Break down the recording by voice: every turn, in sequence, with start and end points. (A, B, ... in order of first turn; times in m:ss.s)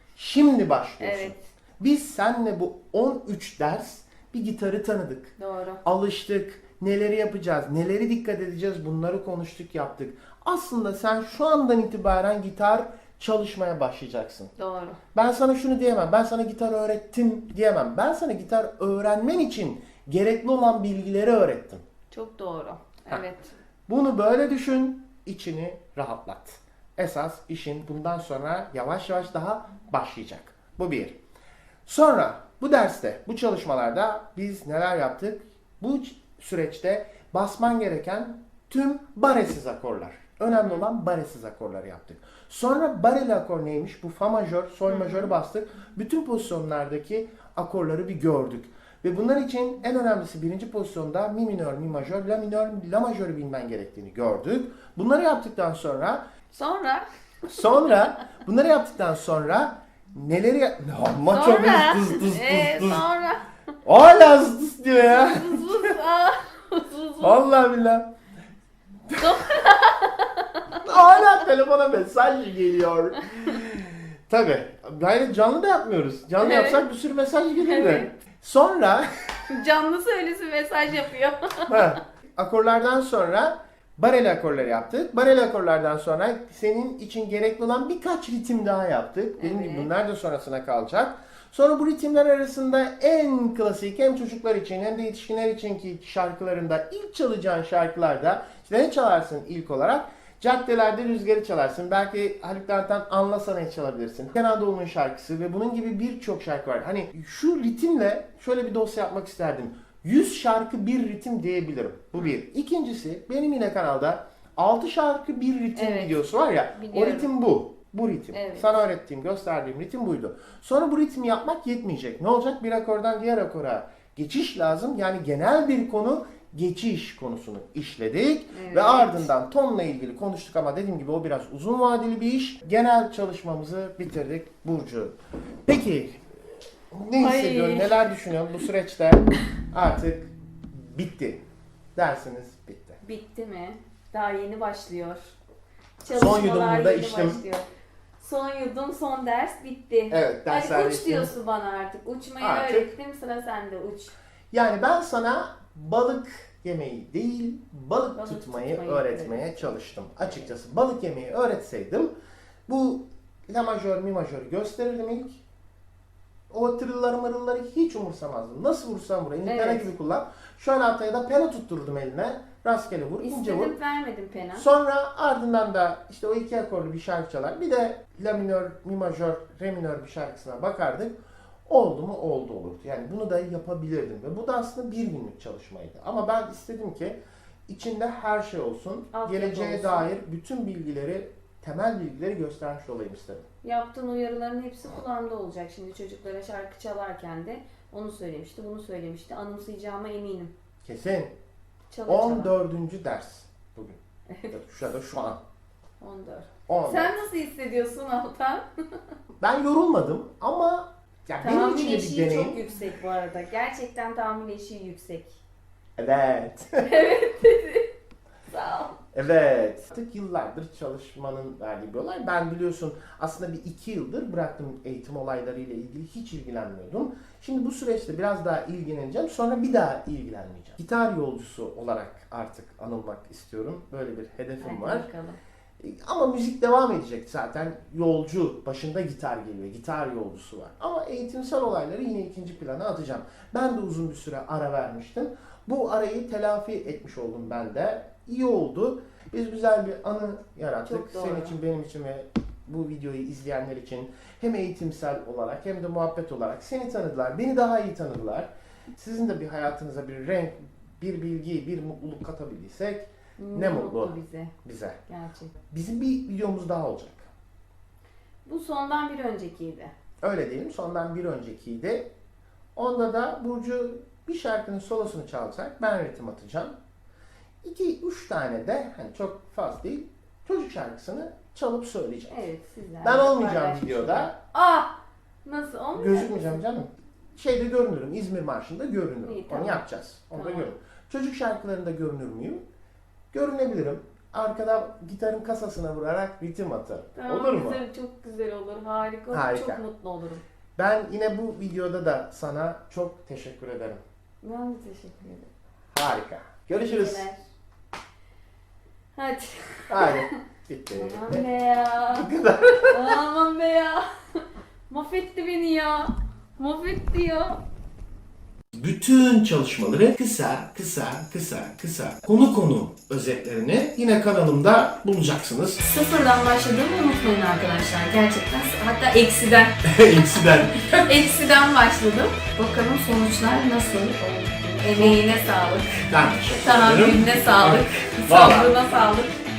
0:00.2-0:05.3 A
0:01.0-0:01.4 B
0:05.4-0:05.8 B
0:05.8-0:14.5 A
0:14.6-0:15.0 B
0:15.1-0:21.8 A
0:22.1-0:23.5 B
0:23.9-0:31.2 A
0:31.9-0:56.2 A
0:40.5-0:40.9 B
0:44.9-0:45.4 B
0:56.5-0:58.0 B
0:57.5-1:03.0 A
1:01.3-1:03.5 B
1:03.8-1:05.9 A
1:05.0-1:07.4 B
1:07.2-1:08.1 A
1:09.2-1:11.0 B
1:10.7-1:19.1 A
1:16.4-1:16.9 B
1:17.6-1:18.1 B
1:19.5-1:22.0 B
1:21.7-2:16.3 A
1:29.4-1:29.9 B
1:55.8-1:56.2 B
1:56.7-1:57.3 B
1:58.3-1:58.7 B
2:08.5-2:09.3 B
2:16.9-2:21.4 A
2:17.2-2:18.0 B
2:22.0-2:23.0 A
2:23.0-2:25.3 B
2:26.0-2:27.7 B
2:26.1-2:27.4 A
2:28.2-2:34.1 B
2:30.1-2:31.3 A
2:32.4-2:32.9 A
2:34.5-2:42.1 A
2:38.2-2:40.5 B
2:42.7-2:45.4 A
2:46.5-2:53.8 A
2:49.4-2:49.9 B
2:53.2-2:54.7 B
2:54.6-3:01.2 A
3:01.7-3:13.5 A
3:09.1-3:10.1 B
3:13.6-3:20.5 B
3:20.8-3:21.4 A
3:21.9-3:22.5 B
3:22.1-3:25.4 A
3:24.3-3:24.6 B
3:26.0-3:29.1 B
3:26.7-3:27.2 A
3:29.4-3:32.6 A
3:31.4-3:35.4 B
3:36.0-3:36.9 A
3:36.8-3:37.9 B
3:38.5-3:39.0 B
3:39.1-3:55.1 A
3:54.6-3:55.4 B
3:55.8-4:25.0 A
4:10.8-4:11.6 B
4:23.4-4:24.5 B
4:25.1-4:25.5 B
4:25.7-4:27.3 A
4:28.4-4:29.9 B
4:30.2-4:32.1 A
4:32.8-4:36.8 A
4:37.6-4:42.5 A
4:42.3-4:46.6 B
4:43.0-4:44.4 A
4:46.0-4:52.6 A
4:49.2-4:50.7 B
4:53.3-4:57.8 A
4:57.2-5:00.4 B
4:59.3-4:59.8 A
5:00.8-5:04.0 A
5:04.4-5:05.5 B
5:05.9-5:07.3 A
5:06.8-5:07.4 B
5:09.2-5:10.4 B
5:09.9-5:11.4 A
5:10.9-5:17.6 B
5:12.1-5:13.2 A
5:18.7-5:25.8 A
5:25.8-5:39.4 B
5:29.8-5:31.1 A
5:36.1-5:38.7 A